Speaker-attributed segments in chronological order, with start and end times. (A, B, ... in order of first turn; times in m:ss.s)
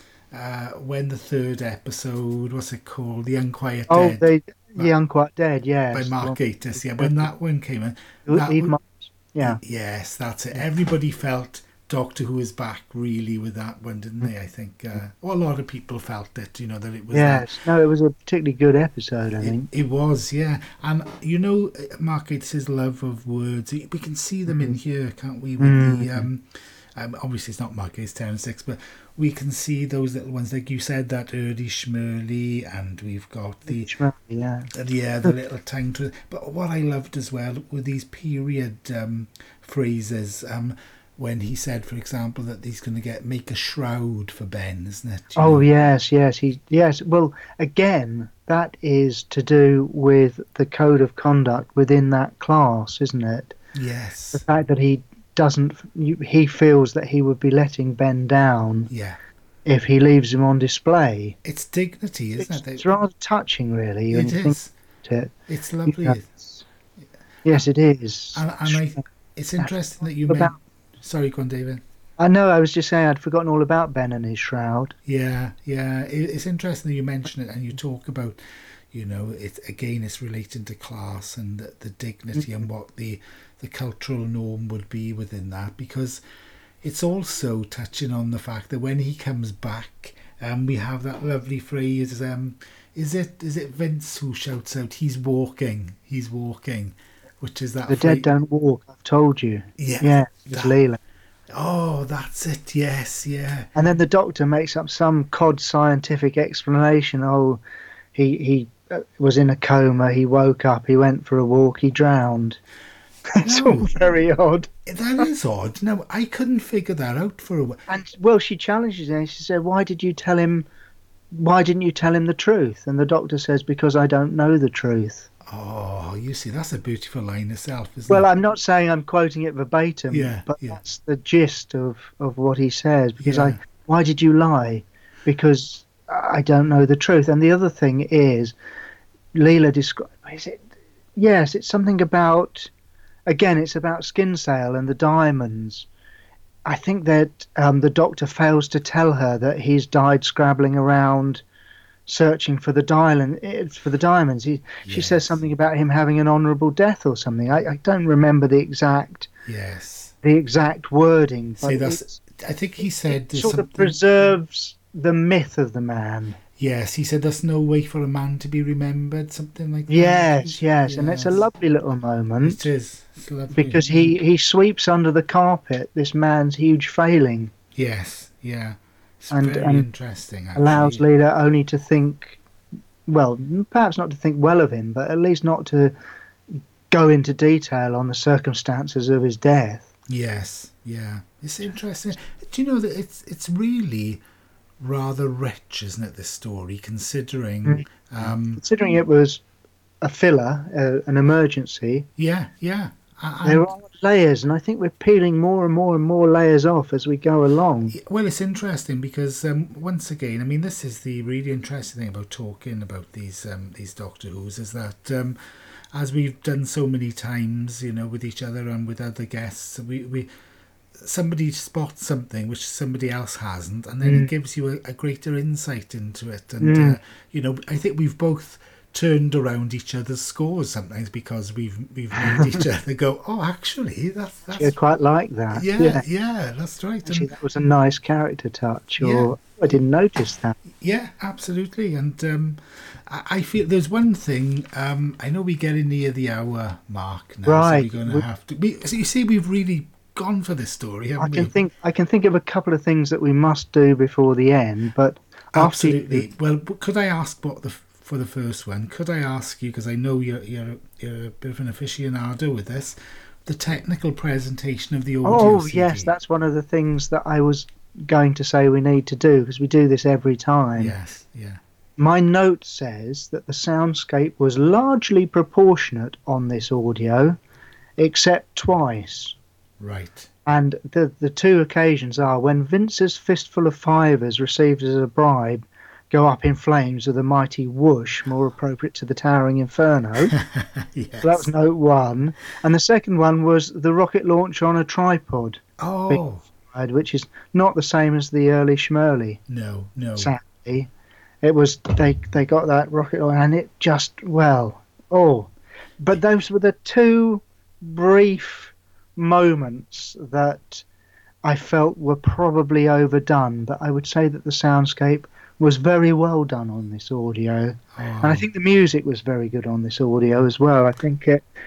0:00.3-0:04.3 A
0:03.9-0:07.3 B
0:05.9-0:08.8 A
0:08.3-0:09.6 B
0:09.4-0:17.5 A
0:17.1-0:19.7 B
0:19.4-0:33.9 A
0:24.5-0:24.8 B
0:25.6-0:26.3 B
0:33.7-0:34.7 B
0:34.7-0:45.7 A
0:45.4-0:53.6 B
0:53.7-0:54.4 A
0:54.3-0:58.9 B
0:58.9-0:59.2 A
0:59.6-1:01.4 B
1:01.4-1:02.8 A
1:02.4-1:05.3 B
1:04.1-1:04.7 A
1:05.5-1:06.3 A
1:05.9-1:06.6 B
1:07.4-1:09.0 B
1:08.3-1:11.8 A
1:10.3-1:10.6 B
1:12.2-1:15.0 B
1:15.1-1:26.2 A
1:26.8-1:38.3 A
1:37.9-1:41.0 B
1:39.8-1:40.8 A
1:41.5-1:43.7 A
1:43.8-1:47.6 B
1:48.1-1:52.6 B
1:53.3-1:55.3 B
1:53.4-1:54.0 A
1:54.8-1:57.8 A
1:57.9-2:00.7 B
2:01.3-2:05.3 B
2:05.5-2:08.3 A
2:08.1-2:18.5 B
2:10.1-2:10.8 A
2:13.2-2:13.6 A
2:19.3-2:22.7 B
2:23.3-2:25.9 B
2:26.7-2:31.4 B
2:32.1-2:39.3 B
2:34.8-2:35.4 A
2:39.5-2:40.2 A
2:40.2-2:42.2 B
2:41.6-2:44.0 A
2:43.3-2:46.4 B
2:46.6-2:51.4 A
2:49.9-2:52.6 B
2:52.4-2:54.2 A
2:53.5-2:57.5 B
2:57.8-3:01.0 A
2:59.3-2:59.9 B
3:00.6-3:02.4 B
3:03.1-3:05.9 B
3:06.5-3:09.9 B
3:10.1-3:14.2 A
3:14.8-3:18.6 A
3:18.6-3:19.4 B
3:20.0-3:22.1 B
3:22.2-3:23.7 A
3:23.4-3:28.0 B
3:27.9-3:35.4 A
3:35.9-3:40.3 A
3:41.0-3:54.8 A
3:44.0-3:44.3 B
3:46.6-3:47.0 B
3:54.5-3:56.0 B
3:55.5-3:57.3 A
3:57.0-4:00.6 B
3:59.0-3:59.3 A
4:00.8-4:11.5 A
4:07.5-4:08.2 B
4:11.2-4:16.3 B
4:15.5-4:26.1 A
4:25.2-4:31.0 B
4:30.8-4:31.6 A
4:32.0-4:37.4 B
4:38.0-4:39.4 B
4:39.8-4:40.3 A
4:40.5-4:50.3 B
4:50.3-4:51.5 A
4:51.2-4:59.4 B
4:55.8-4:56.4 A
4:59.5-5:00.3 A
5:00.2-5:00.9 B
5:01.4-5:10.9 B
5:11.4-5:21.5 B
5:18.0-5:18.5 A